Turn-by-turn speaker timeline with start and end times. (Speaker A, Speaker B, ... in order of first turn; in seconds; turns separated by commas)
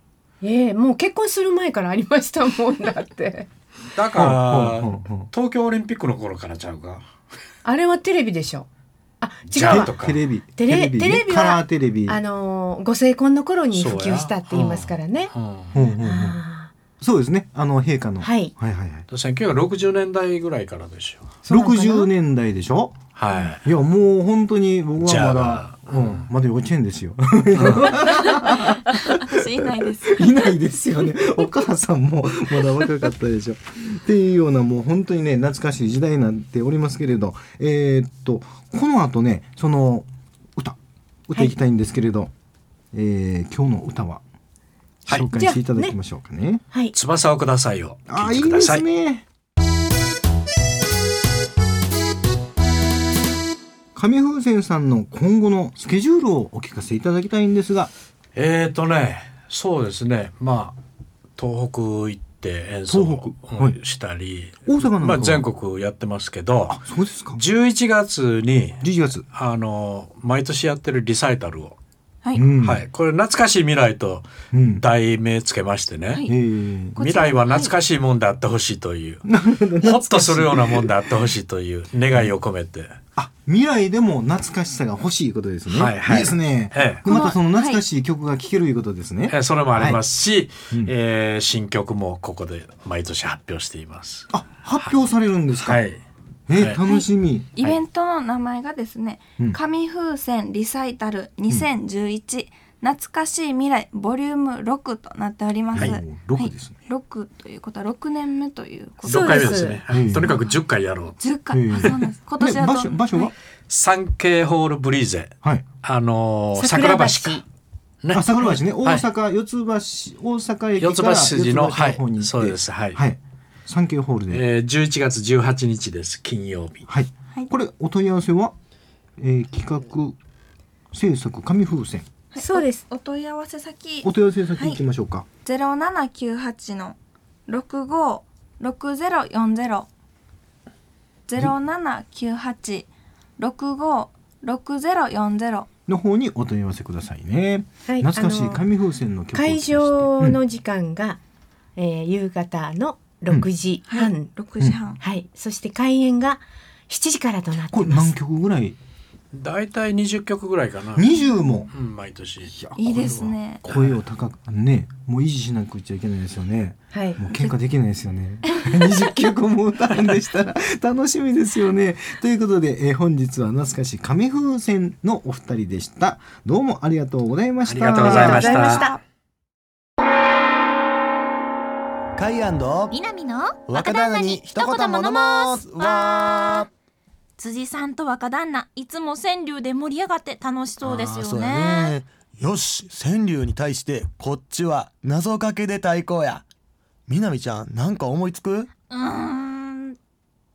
Speaker A: 0.4-3.5, Speaker B: 4.0-7.1, Speaker C: 4.1-5.3, Speaker A: 7.7-8.7, Speaker A: 9.2-9.9, Speaker B: 9.5-10.2, Speaker C: 9.6-12.2, Speaker A: 10.6-15.3, Speaker B: 13.7-15.8, Speaker C: 15.7-16.4, Speaker A: 16.0-16.7, Speaker C: 17.0-19.1, Speaker A: 18.2-18.5, Speaker B: 19.1-21.3, Speaker C: 21.4-23.0, Speaker A: 21.5-22.1, Speaker B: 23.1-23.6, Speaker C: 23.6-29.2, Speaker B: 25.0-26.3, Speaker B: 27.6-28.2, Speaker D: 29.1-30.3, Speaker C: 30.1-42.3, Speaker C: 42.9-44.2, Speaker C: 45.1-46.6, Speaker A: 45.3-46.0, Speaker B: 46.9-48.9, Speaker C: 48.1-49.2, Speaker C: 54.0-57.9, Speaker B: 58.4-60.8, Speaker B: 61.4-66.8, Speaker C: 62.9-63.8, Speaker C: 64.7-65.5, Speaker C: 66.7-67.4, Speaker B: 67.3-71.8, Speaker C: 68.8-69.3, Speaker C: 72.3-72.8, Speaker B: 72.6-74.3, Speaker C: 74.5-74.8, Speaker B: 74.8-76.3, Speaker C: 76.3-77.0, Speaker D: 77.0-77.7, Speaker B: 77.0-79.2, Speaker C: 79.2-81.0, Speaker B: 79.8-82.9, Speaker C: 83.2-90.0, Speaker B: 85.7-87.0, Speaker D: 87.1-87.8, Speaker B: 89.3-95.0, Speaker C: 94.3-95.8, Speaker B: 95.6-96.0, Speaker C: 96.5-97.8, Speaker B: 96.6-96.8, Speaker D: 97.6-109.6, Speaker C: 105.7-106.8, Speaker A: 109.0-109.8, Speaker B: 109.0-111.2, Speaker C: 109.9-110.4, Speaker D: 111.2-113.3, Speaker C: 111.5-113.3, Speaker B: 113.7-115.3, Speaker B: 115.8-117.4, Speaker A: 116.5-117.4, Speaker B: 118.0-119.1, Speaker C: 118.1-124.4, Speaker B: 120.8-123.0, Speaker B: 124.3-126.9, Speaker C: 126.9-128.5, Speaker C: 129.2-130.2, Speaker C: 130.9-132.1, Speaker D: 132.3-134.8, Speaker A: 132.4-132.8, Speaker C: 134.0-135.3, Speaker D: 135.4-139.9, Speaker D: 141.3-145.7, Speaker C: 145.9-150.4, Speaker A: 147.9-148.6, Speaker A: 149.3-151.2, Speaker A: 151.8-154.3, Speaker D: 153.9-155.0, Speaker A: 155.0-158.1, Speaker C: 157.7-158.8, Speaker B: 159.3-161.1, Speaker C: 160.9-161.7, Speaker B: 161.7-162.5, Speaker C: 162.5-178.7, Speaker D: 162.8-163.6, Speaker B: 163.6-164.0, Speaker A: 166.9-167.2, Speaker B: 177.6-178.9, Speaker A: 178.0-178.9, Speaker D: 178.1-179.0, Speaker E: 182.2-183.0, Speaker F: 182.9-186.6, Speaker E: 183.7-186.7, Speaker F: 187.4-191.9, Speaker E: 190.8-196.4, Speaker E: 197.1-198.7, Speaker F: 198.9-200.0